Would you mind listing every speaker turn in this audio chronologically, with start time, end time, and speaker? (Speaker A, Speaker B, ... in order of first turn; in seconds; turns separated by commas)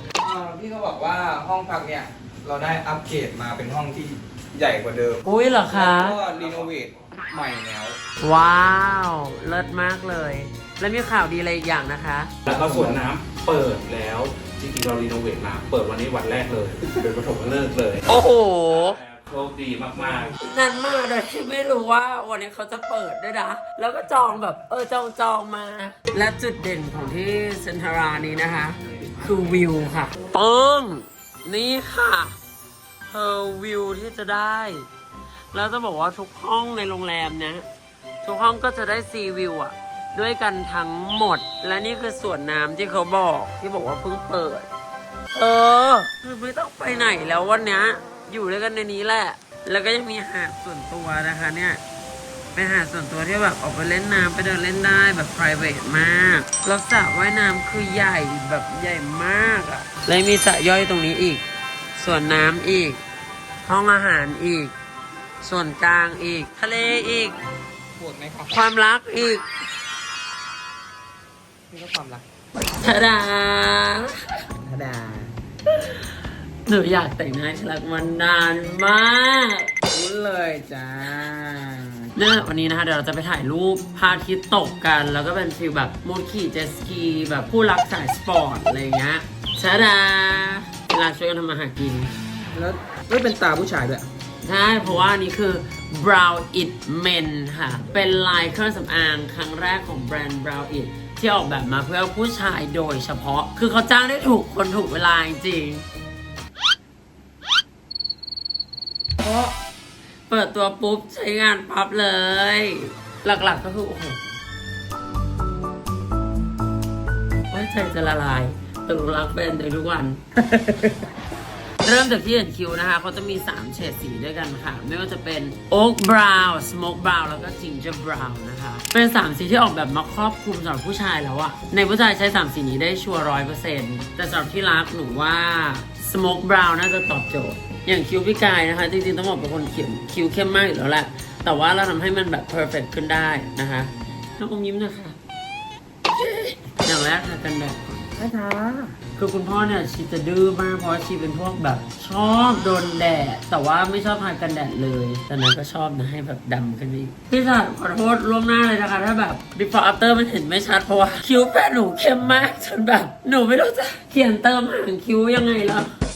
Speaker A: 0.2-8.0, Speaker B: 5.2-6.2, Speaker C: 6.3-6.8, Speaker B: 8.2-12.3, Speaker C: 12.5-20.4, Speaker A: 12.5-13.0, Speaker B: 18.1-19.0, Speaker B: 20.4-32.4, Speaker B: 33.1-34.9, Speaker B: 35.5-37.6, Speaker B: 38.2-44.7, Speaker B: 45.3-51.8, Speaker B: 52.5-61.4, Speaker B: 62.0-63.0, Speaker B: 63.7-64.7, Speaker B: 65.4-67.4, Speaker A: 68.0-68.5, Speaker B: 68.5-69.5, Speaker A: 71.7-72.2, Speaker B: 72.6-74.2, Speaker A: 74.6-75.4, Speaker B: 76.7-79.7, Speaker A: 79.9-82.1, Speaker B: 82.2-92.1, Speaker A: 92.5-94.1, Speaker B: 94.4-105.8, Speaker B: 109.2-109.6, Speaker B: 110.3-114.2, Speaker B: 117.5-120.2, Speaker A: 120.5-121.0, Speaker B: 121.8-145.2, Speaker B: 146.1-148.1, Speaker A: 148.2-149.0, Speaker B: 149.2-165.9